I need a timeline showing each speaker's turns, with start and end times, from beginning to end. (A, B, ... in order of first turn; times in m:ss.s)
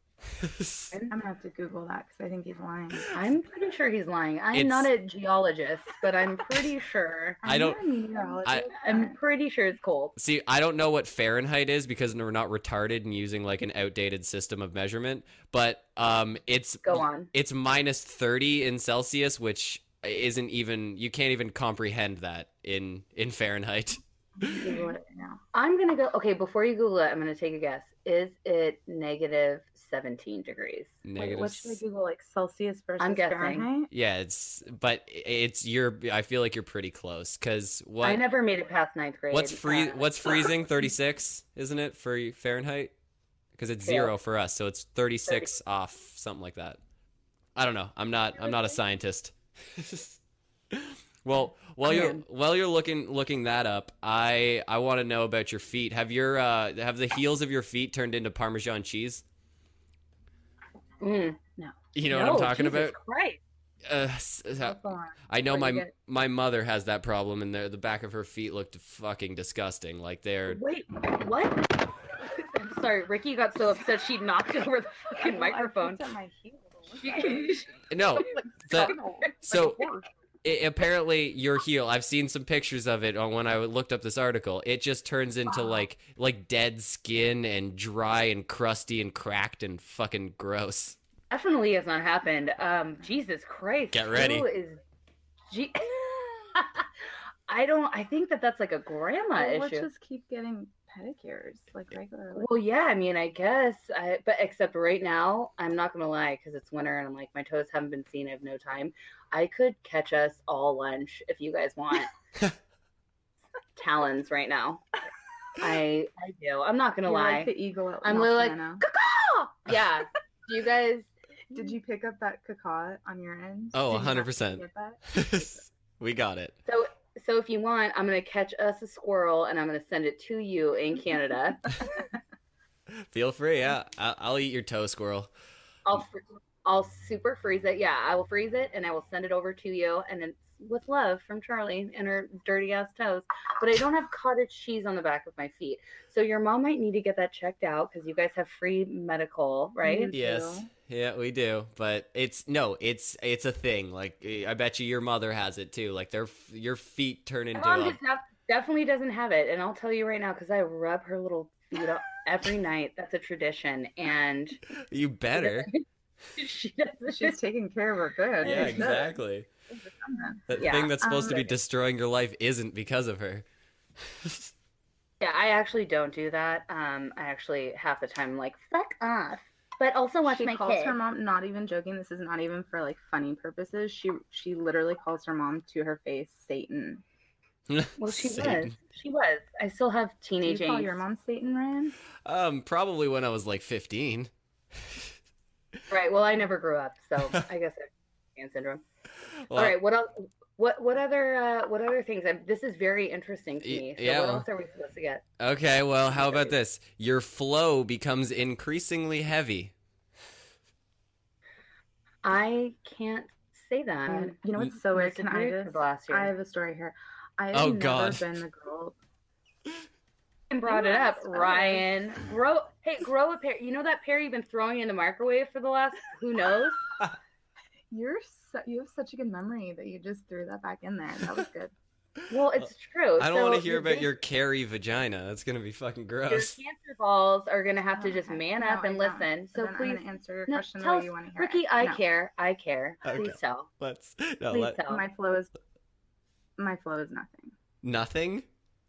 0:00.4-0:00.9 A
0:01.1-0:03.1 B
0:03.1-0:07.4 C
0:04.5-0:04.9 A
0:07.4-0:09.2 B
0:07.5-0:07.8 A
0:08.7-0:10.2 C
0:10.2-0:24.6 A
0:16.8-0:17.3 C
0:24.4-0:25.4 B
0:24.6-0:25.0 C
0:25.5-0:31.0 C
0:31.0-0:31.8 A
0:31.2-0:33.9 B
0:33.0-0:33.7 C
0:33.9-0:38.2 A
0:38.0-0:40.5 C
0:39.3-0:42.9 A
0:43.6-0:46.8 A
0:43.8-0:44.1 C
0:45.3-0:45.6 C
0:47.6-0:50.2 A
0:50.7-0:59.2 A
0:51.9-0:52.2 B
1:01.0-1:03.4 C
1:02.0-1:03.0 A
1:03.9-1:04.8 A
1:05.3-1:10.6 A
1:05.5-1:05.9 C
1:10.5-1:16.0 C
1:15.2-1:20.1 B
1:17.0-1:19.9 C
1:17.9-1:19.8 A
1:20.4-1:31.0 A
1:31.3-1:34.8 C
1:33.9-1:34.5 A
1:35.5-1:36.9 C
1:37.5-1:39.9 C
1:39.4-1:42.5 B
1:42.3-1:52.1 C
1:53.8-1:54.8 C
1:55.6-2:01.6 C
1:57.0-1:58.8 B
2:01.5-2:05.3 B
2:03.7-2:06.5 A
2:06.7-2:11.8 C
2:13.0-2:15.3 A
2:15.9-2:30.1 C
2:29.8-2:30.7 B
2:30.1-2:38.0 A
2:37.6-2:44.6 C
2:44.7-2:45.7 A
2:45.4-2:45.8 C
2:46.4-2:47.4 C
2:47.1-2:49.2 B
2:48.4-2:49.5 A
2:48.4-2:49.0 C
2:49.7-2:50.5 B
2:50.5-2:53.4 A
2:50.6-2:51.4 C
2:51.0-2:51.5 B
2:54.0-2:54.5 A
2:55.2-3:01.0 C
3:00.2-3:07.0 B
3:07.7-3:08.7 A
3:08.0-3:11.0 C
3:10.4-3:12.0 B
3:12.3-3:14.3 A
3:15.9-3:18.8 C
3:19.4-3:19.8 A
3:19.5-3:25.2 C
3:23.6-3:24.4 A
3:25.4-3:29.7 A
3:26.2-3:26.5 C
3:32.2-3:36.3 C
3:34.1-3:39.0 B
3:37.5-3:38.4 A
3:40.5-3:46.8 C
3:40.7-3:41.9 B
3:47.9-3:51.7 B
3:52.3-3:54.1 C
3:53.2-3:56.6 A
3:56.3-4:03.7 C
3:57.9-4:02.0 B
4:03.1-4:04.8 A
4:04.5-4:05.0 C
4:04.8-4:05.5 B
4:06.6-4:07.6 B
4:07.8-4:08.5 A